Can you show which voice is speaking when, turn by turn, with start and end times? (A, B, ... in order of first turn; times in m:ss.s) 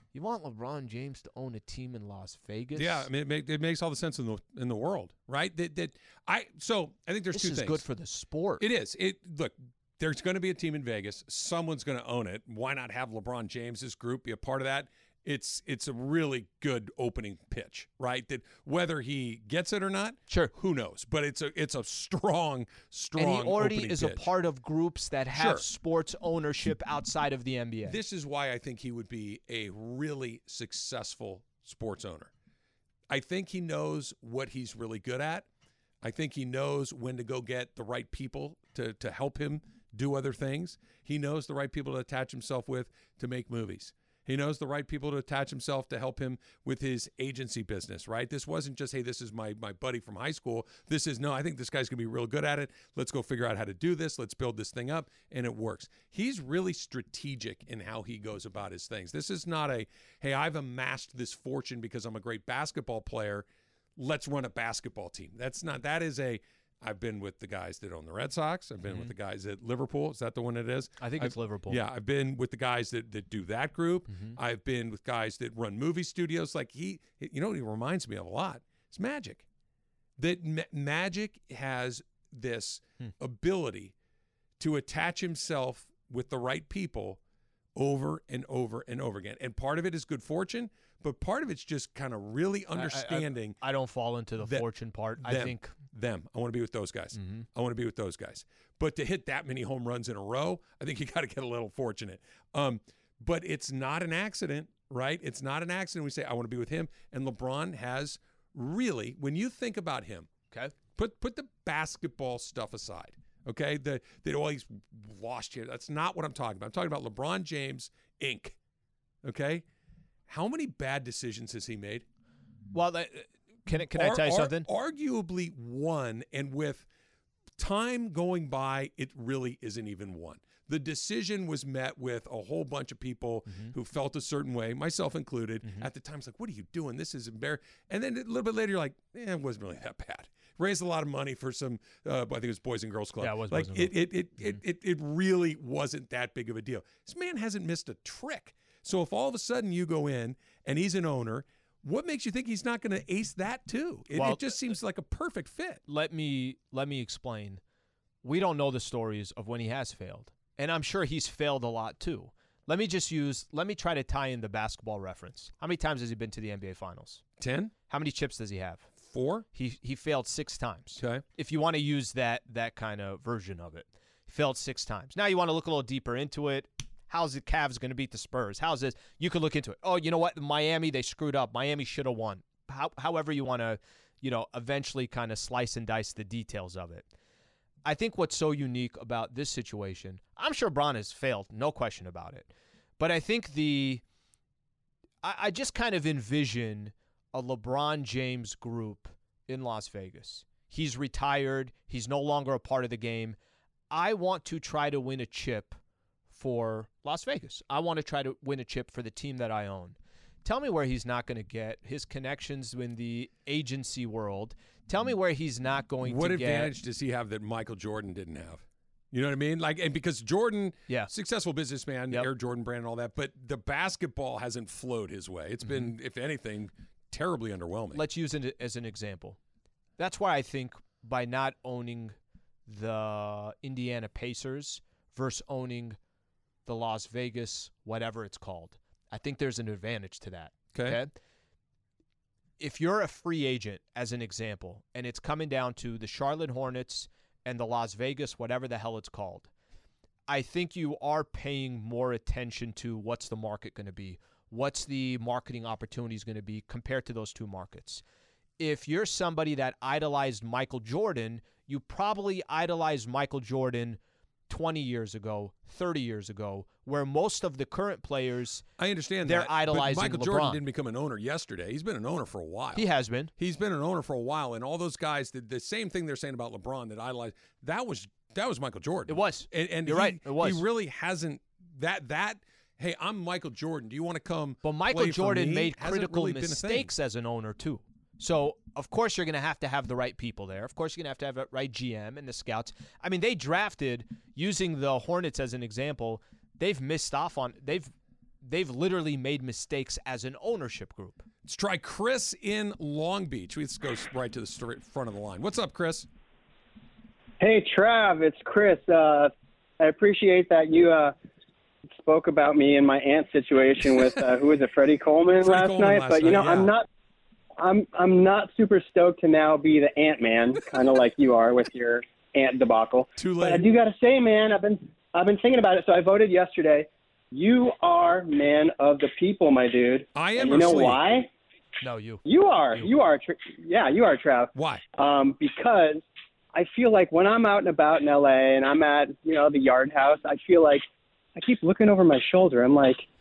0:00.1-0:03.1 A
0:02.8-0:07.8 B
0:07.3-0:08.6 A
0:08.6-0:24.2 B
0:23.2-0:28.0 A
0:25.3-0:25.6 B
0:27.8-0:32.3 B
0:33.1-0:35.4 B
0:36.0-1:03.4 B
1:04.0-1:19.4 B
1:08.8-1:09.1 A
1:11.0-1:11.8 A
1:14.1-1:14.4 A
1:20.2-1:23.9 B
1:24.6-1:27.2 B
1:27.7-1:33.6 B
1:32.7-1:35.7 A
1:34.4-1:34.7 B
1:35.2-1:50.3 B
1:37.1-1:37.4 A
1:50.9-1:58.6 B
1:59.2-1:59.6 B
2:00.3-2:02.0 B
2:02.7-2:04.7 A
2:03.9-2:06.8 B
2:07.6-2:35.8 B
2:13.5-2:13.7 A
2:23.2-2:24.6 A
2:34.1-2:34.6 A
2:35.9-2:37.6 A
2:38.2-2:47.2 A
2:47.4-2:47.7 B
2:47.9-2:48.9 A
2:49.0-2:49.5 B
2:49.5-3:07.1 A
2:51.0-2:51.2 B
3:07.8-3:14.0 A
3:15.2-3:23.4 A
3:23.9-3:25.8 A
3:26.3-3:36.7 A
3:36.0-3:48.0 B
3:45.6-3:45.9 A
3:47.9-3:49.4 A
3:50.0-3:52.1 A
3:52.7-3:56.0 A
3:56.6-4:01.1 A
4:00.7-4:01.0 B
4:02.6-4:09.5 A
4:10.3-4:18.0 A
4:18.6-4:28.6 A
4:28.8-4:32.8 B
4:29.2-4:30.6 A
4:32.7-4:33.3 A
4:33.4-4:46.9 B
4:39.1-4:40.6 A
4:44.6-5:01.2 A
5:01.4-5:06.1 B
5:07.4-5:11.1 C
5:11.9-5:16.8 C
5:15.4-5:16.7 B
5:17.6-5:31.3 C
5:23.2-5:23.6 B
5:30.1-5:31.0 B
5:31.8-5:32.9 A
5:32.2-5:36.0 C
5:34.5-5:34.8 B
5:36.5-5:40.8 C
5:41.4-5:43.0 C